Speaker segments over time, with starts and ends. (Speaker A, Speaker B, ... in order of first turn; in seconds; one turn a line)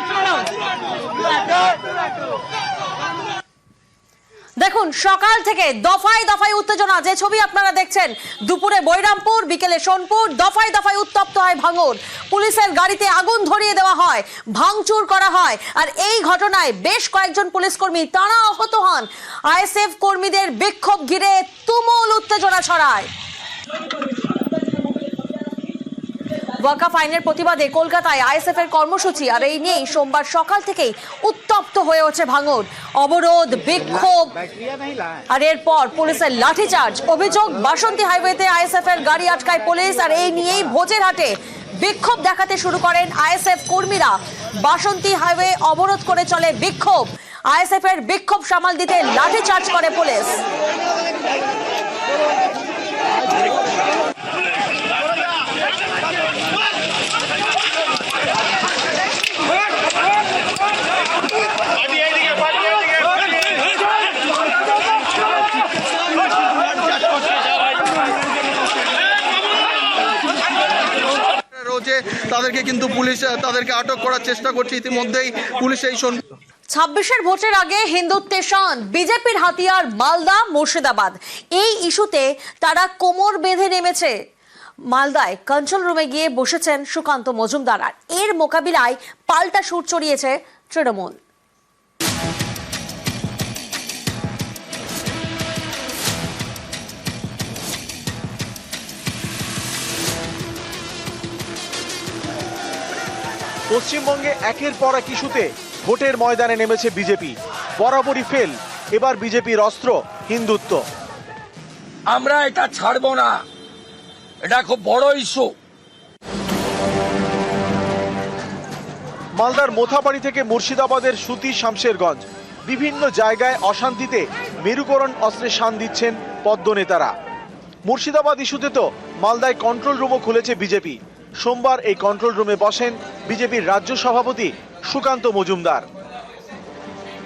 Speaker A: 4.6-23.1
Speaker A: 26.6-34.4
Speaker A: 35.3-50.4
Speaker B: 71.6-76.2
Speaker A: 76.7-84.1
Speaker A: 84.9-91.2
Speaker C: 103.7-110.8
Speaker D: 112.1-113.4
Speaker D: 114.5-115.5
Speaker C: 119.4-127.2
Speaker C: 127.8-135.9